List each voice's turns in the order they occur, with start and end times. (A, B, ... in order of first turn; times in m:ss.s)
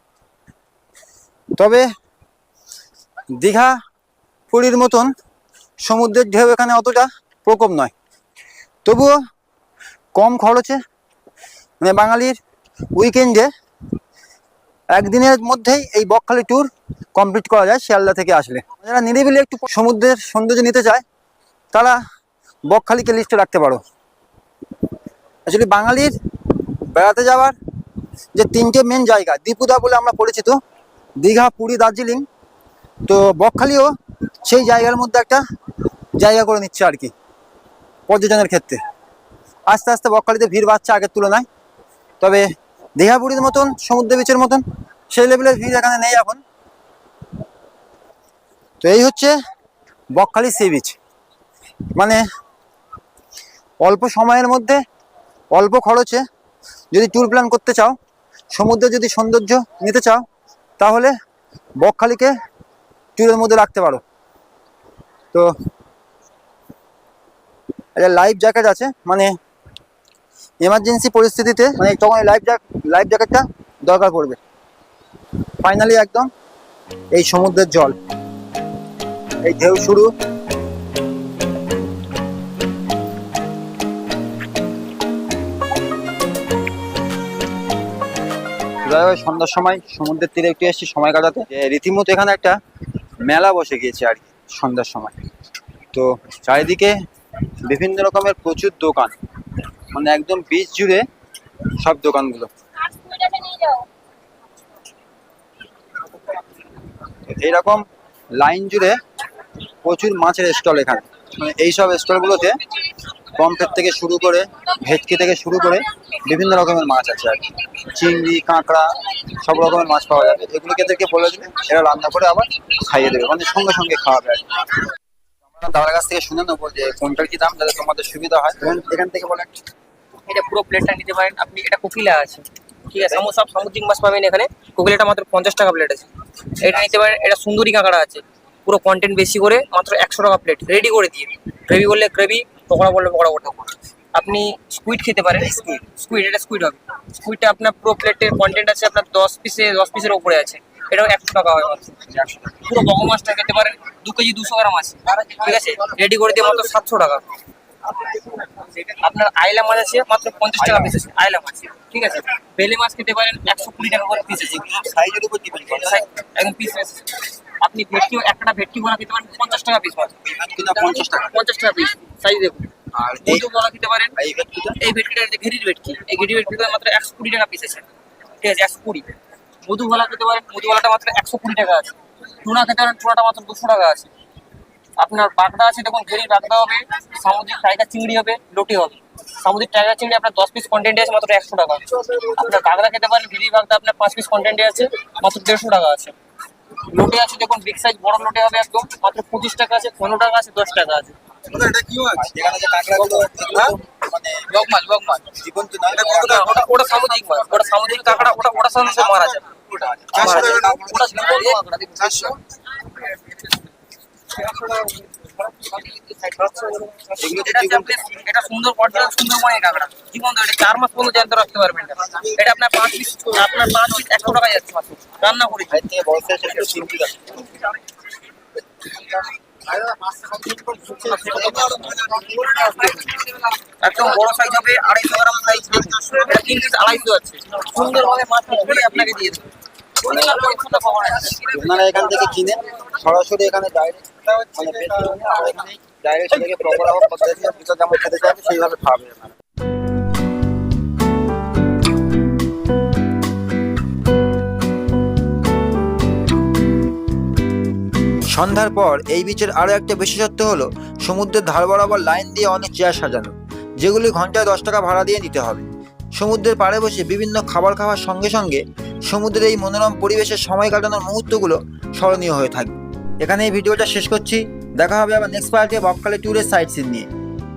0:01.6-0:01.8 A
0:03.4-0:03.8 A
0:04.5-0:05.1 A
0:05.8-0:07.9 A
0:08.8-0:09.2 A
0:10.1-0:10.8 A
0:11.8-0:12.4 A
0:12.9-0:13.5 A
0:14.9-0:21.0 A
0:21.7-0:22.0 A
0:22.7-0:23.8 A
0:25.5-0:27.6 A
0:28.3-0:30.6 A
0:31.2-0:32.2 A
0:33.1-0:33.9 A
0:34.4-0:35.4 A
0:36.2-0:37.1 A
0:38.1-0:38.8 A
0:39.7-0:41.5 A
0:42.2-0:46.4 A
0:48.8-0:49.4 A
0:50.1-0:51.0 A
0:51.9-0:52.2 A
0:53.8-0:54.8 A
0:55.5-0:56.2 A
0:56.9-0:58.0 A
0:58.5-1:00.2 A
1:00.8-1:01.1 A
1:01.8-1:02.3 A
1:03.2-1:04.0 A
1:08.0-1:09.4 A
1:10.6-1:14.4 A
1:15.6-1:16.3 A
1:17.1-1:18.0 A
1:19.4-1:20.1 A
1:28.8-1:32.6 A
1:33.3-1:35.1 A
1:35.9-1:36.9 A
1:37.6-1:39.2 A
1:39.9-1:41.0 A
1:41.8-1:42.5 A
1:47.3-1:47.9 A
1:48.4-1:49.0 A
1:49.8-1:52.6 A
1:53.4-2:04.8 A
2:05.6-2:09.6 A
2:10.3-2:37.3 B
2:37.9-2:44.7 B
2:45.6-2:50.2 B
2:50.8-2:52.7 B
2:53.0-2:53.4 C
2:53.2-2:54.2 B
2:54.2-2:54.8 C
2:54.8-2:57.8 B
2:58.4-2:59.1 B
2:59.7-3:04.1 B
3:05.0-3:16.2 B
3:16.9-3:22.1 B
3:22.2-3:24.4 A
3:24.5-3:25.4 B
3:25.4-3:26.4 A
3:25.9-3:33.6 B
3:30.1-3:30.7 C
3:34.3-3:45.8 B
3:37.3-3:37.8 C
3:45.8-3:47.1 A
3:50.4-4:02.2 B
4:01.5-4:09.3 A
4:18.3-4:37.1 C